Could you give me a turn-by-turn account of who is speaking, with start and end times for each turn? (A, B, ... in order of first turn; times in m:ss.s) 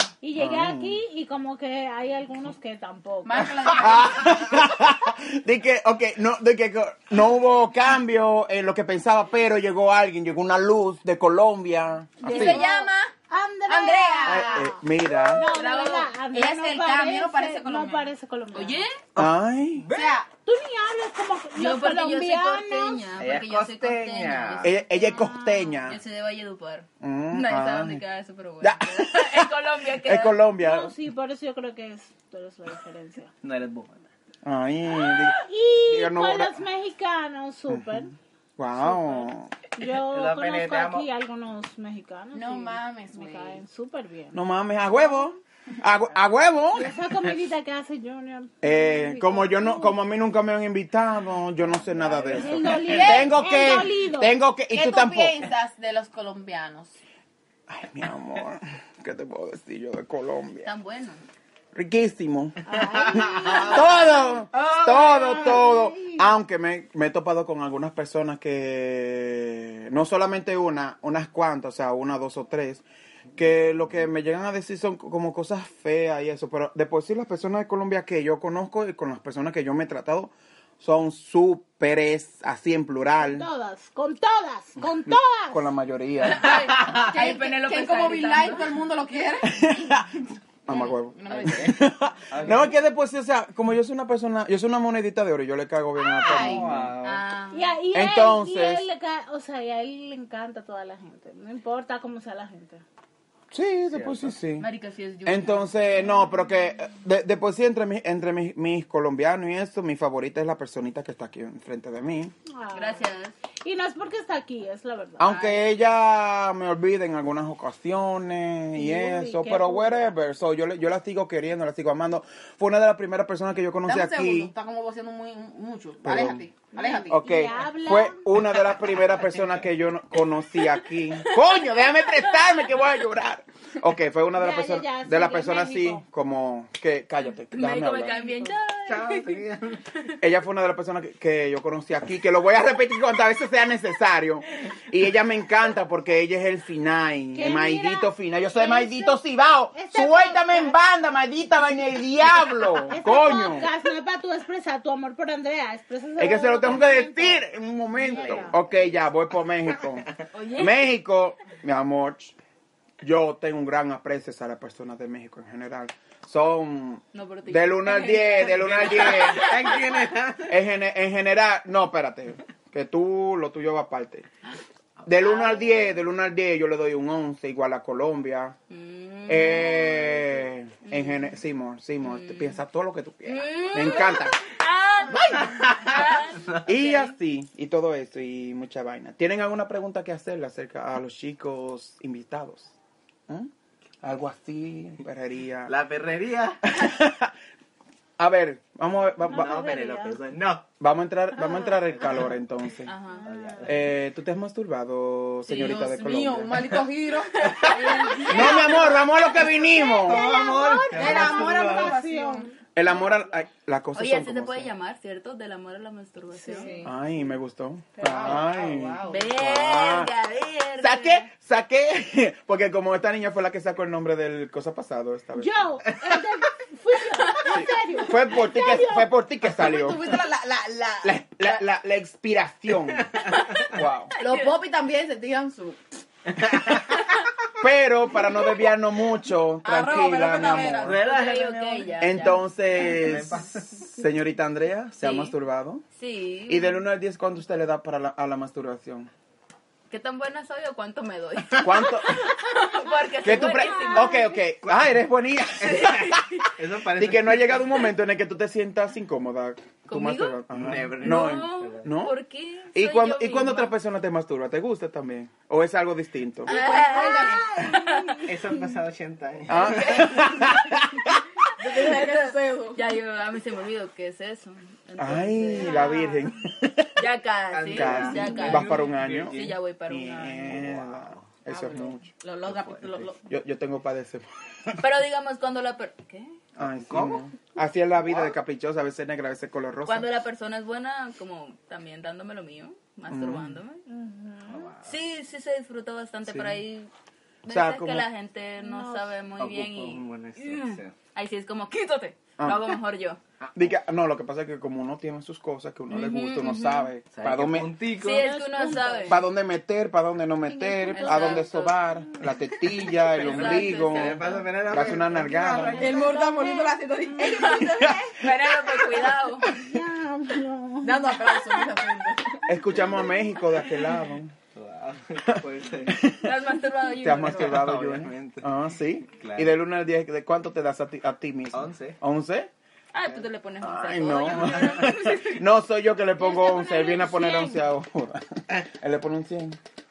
0:00.2-0:03.6 A
0:00.4-0:01.0 B
0:03.2-0:04.6 C
0:03.7-0:12.6 B
0:12.2-0:12.8 A
0:12.2-0:13.1 C
0:12.3-0:12.9 D
0:13.3-0:18.8 A
0:13.7-0:14.8 C
0:14.2-0:15.5 B
0:15.4-0:16.1 D
0:16.3-0:18.1 C
0:18.5-0:19.0 D
0:19.2-0:20.2 E
0:19.2-0:19.8 B
0:19.9-0:20.3 C
0:20.4-0:23.1 A
0:21.6-0:24.7 D
0:23.2-0:24.7 E
0:24.6-0:26.0 B
0:24.8-0:25.8 A
0:25.9-0:30.4 D
0:27.0-0:28.0 B
0:28.6-0:30.9 B
0:30.6-0:33.3 A
0:33.4-0:34.0 E
0:34.4-0:36.6 B
0:35.0-0:38.1 A
0:37.7-0:39.5 B
0:38.8-0:44.4 A
0:39.9-0:41.1 E
0:42.3-0:43.6 C
0:44.3-0:46.9 B
0:46.7-0:50.0 A
0:48.6-0:55.4 B
0:51.9-0:52.9 E
0:52.3-0:54.4 A
0:52.9-0:53.3 C
0:54.7-0:56.9 C
0:57.7-1:00.7 B
1:00.6-1:01.2 D
1:01.7-1:02.6 B
1:02.6-1:04.2 A
1:02.8-1:03.7 E
1:03.1-1:12.8 B
1:04.6-1:05.6 E
1:05.4-1:06.1 C
1:13.3-1:23.5 B
1:23.2-1:25.7 A
1:25.0-1:27.1 B
1:26.2-1:28.8 D
1:26.4-1:30.1 C
1:29.4-1:30.1 B
1:30.6-1:37.0 B
1:30.7-1:31.9 C
1:31.3-1:31.8 E
1:32.3-1:32.8 E
1:36.0-1:36.7 C
1:36.2-1:37.3 E
1:37.0-1:37.8 D
1:37.5-1:42.8 A
1:37.9-1:38.8 B
1:43.5-1:44.7 B
1:43.9-1:44.3 E
1:44.6-1:45.7 D
1:45.2-1:52.3 B
1:52.5-1:53.0 A
1:52.7-1:53.3 D
1:53.6-1:55.6 A
1:55.2-2:04.5 B
1:58.7-2:00.1 A
2:03.8-2:07.2 C
2:06.0-2:06.4 B
2:06.7-2:08.2 A
2:07.1-2:18.2 B
2:11.2-2:11.5 D
2:12.1-2:12.5 D
2:14.3-2:16.0 A
2:17.5-2:20.2 D
2:18.9-2:19.8 E
2:20.2-2:33.7 B
2:27.3-2:29.2 A
2:29.7-2:30.8 A
2:32.9-2:37.4 A
2:36.2-2:42.3 B
2:38.1-2:38.5 D
2:38.2-2:38.5 A
2:40.3-2:40.8 D
2:43.0-2:49.8 B
2:47.1-2:49.7 D
2:48.4-2:50.5 E
2:50.4-2:54.3 B
2:55.0-2:58.6 B
2:55.3-2:55.6 D
2:58.7-3:01.3 D
2:59.2-3:04.4 B
3:02.0-3:02.6 D
3:03.2-3:07.1 D
3:05.1-3:12.7 B
3:14.0-3:15.7 B
3:15.6-3:16.7 E
3:16.6-3:17.3 B
3:18.2-3:19.7 B
3:19.2-3:20.2 A
3:19.3-3:20.7 E
3:20.8-3:22.9 B
3:22.8-3:23.2 D
3:23.2-3:23.6 A
3:23.2-3:23.8 E
3:23.6-3:26.8 B
3:25.5-3:29.4 C
3:27.5-3:27.7 E
3:27.6-3:29.0 D
3:28.3-3:30.3 B
3:29.6-3:32.5 A
3:30.0-3:32.0 E
3:30.9-3:32.5 C
3:32.7-3:34.7 B
3:33.9-3:36.8 D
3:36.4-3:36.8 A
3:36.4-3:36.9 C
3:36.8-3:40.1 B
3:38.0-3:39.1 E
3:38.0-3:39.3 C
3:39.1-3:41.3 D
3:40.8-3:45.7 B
3:45.4-3:49.1 A
3:47.5-3:50.1 B
3:49.4-3:51.6 C
3:51.0-3:53.1 B
3:52.9-3:53.3 E
3:53.7-3:54.1 B
3:54.1-3:56.0 C
3:54.1-3:54.5 D
3:56.3-3:56.8 E
3:57.6-4:01.0 B
3:59.6-4:01.1 C
4:00.4-4:02.0 E
4:01.0-4:02.4 D
4:02.0-4:05.8 B
4:02.8-4:03.9 E
4:05.0-4:05.3 D
4:06.0-4:06.8 D
4:06.5-4:09.1 B
4:09.9-4:14.4 D
4:11.6-4:12.2 B
4:13.2-4:16.4 B
4:15.6-4:16.5 D
4:16.6-4:17.8 E
4:16.9-4:22.1 B
4:19.9-4:23.7 D
4:20.5-4:21.8 E
4:22.7-4:26.5 B
4:26.4-4:28.2 D
4:26.5-4:27.6 C
4:26.5-4:28.8 A
4:28.2-4:30.5 E
4:29.5-4:31.2 B
4:29.6-4:30.1 D
4:30.0-4:30.2 C
4:31.6-4:32.8 C
4:31.6-4:36.0 D
4:35.0-4:37.0 B
4:35.6-4:36.3 A
4:37.0-4:40.5 D
4:37.5-4:39.6 E
4:37.7-4:42.1 B
4:40.4-4:41.4 E
4:41.5-4:43.2 C
4:42.4-4:43.1 E
4:43.2-4:44.8 B
4:44.8-4:46.3 D
4:46.6-4:50.1 B
4:46.6-4:47.2 E
4:48.1-4:48.3 E
4:49.8-4:53.8 D
4:53.1-4:53.6 B
4:53.9-4:54.7 A
4:54.4-4:55.0 E
4:54.8-4:56.9 D
4:56.3-4:56.6 B
4:57.4-5:03.2 D
4:57.5-4:58.0 B
4:58.6-4:59.2 A
4:59.4-5:00.9 E
5:02.4-5:02.8 B
5:03.4-5:03.7 E
5:03.5-5:07.7 B
5:05.9-5:06.9 D
5:07.1-5:08.3 E
5:08.0-5:09.2 D
5:08.0-5:09.2 A
5:09.1-5:15.9 B
5:10.8-5:11.4 A
5:10.9-5:11.8 D
5:13.0-5:16.1 E
5:13.0-5:14.4 D
5:15.4-5:17.6 A
5:15.8-5:18.1 C
5:17.2-5:19.5 D
5:17.8-5:19.5 B
5:19.5-5:21.7 A
5:20.8-5:22.4 C
5:22.5-5:24.3 B
5:22.9-5:23.1 A
5:24.5-5:26.1 E
5:25.3-5:26.3 B
5:26.1-5:27.6 D
5:27.0-5:32.5 B
5:27.2-5:28.4 E
5:29.2-5:29.5 E
5:31.5-5:32.0 E
5:32.9-5:35.4 D
5:33.6-5:39.6 B
5:34.4-5:34.8 E
5:36.2-5:37.7 A